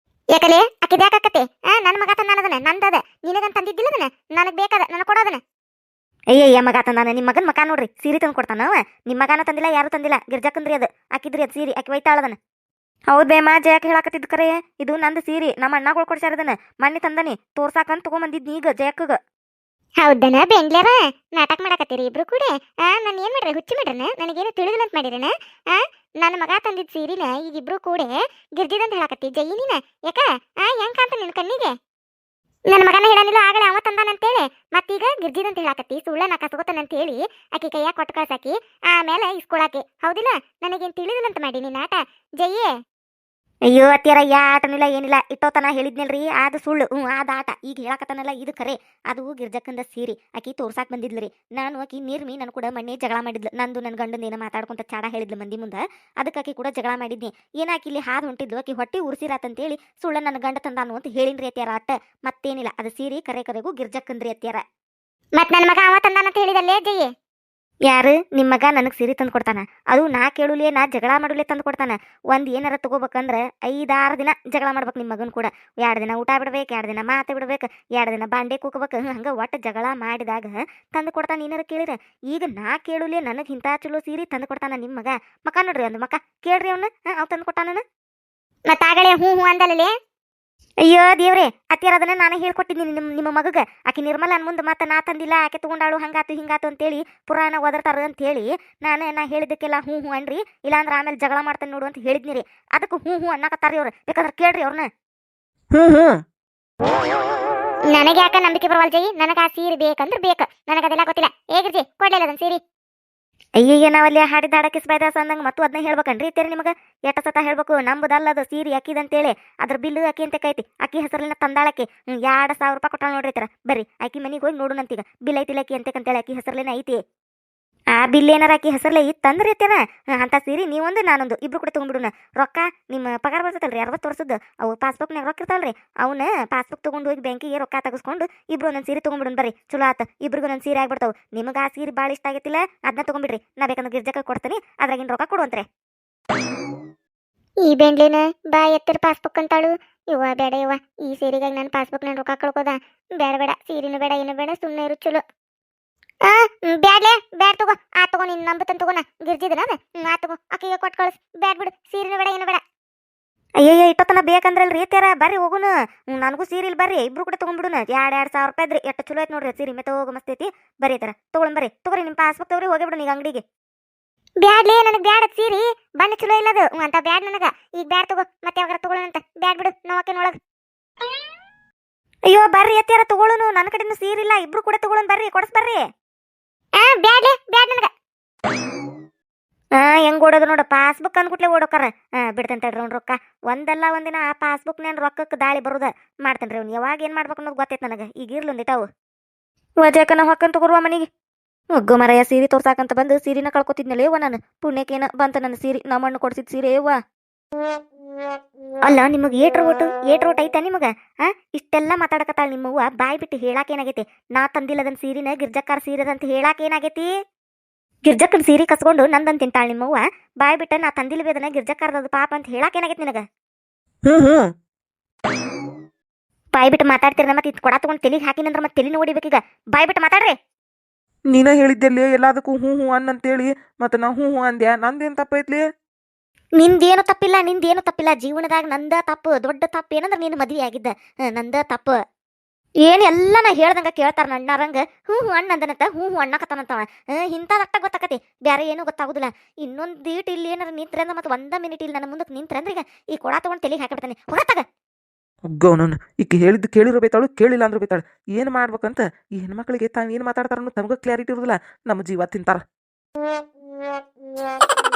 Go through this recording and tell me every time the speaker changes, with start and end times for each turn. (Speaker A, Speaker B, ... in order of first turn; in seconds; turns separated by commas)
Speaker A: 0.3-5.4, Speaker B: 6.3-12.3, Speaker B: 13.1-19.2, Speaker A: 20.0-31.7, Speaker A: 32.7-42.7, Speaker B: 43.7-64.6, Speaker A: 65.3-67.1, Speaker B: 67.9-87.8, Speaker A: 88.7-89.9, Speaker B: 90.9-104.8, Speaker C: 105.7-106.2, Speaker A: 107.9-112.6, Speaker B: 113.6-127.0, Speaker B: 127.9-145.6, Speaker A: 147.6-155.2, Speaker A: 156.2-162.6, Speaker B: 163.6-173.4, Speaker A: 174.4-180.3, Speaker B: 182.3-185.8, Speaker A: 186.8-187.9, Speaker B: 189.8-198.8, Speaker B: 199.8-201.0, Speaker B: 201.8-206.9, Speaker B: 208.8-217.1, Speaker B: 218.0-223.2, Speaker C: 224.1-224.4, Speaker B: 226.5-230.3, Speaker C: 231.3-235.6, Speaker B: 236.6-242.0, Speaker B: 242.8-254.6, Speaker C: 255.5-262.6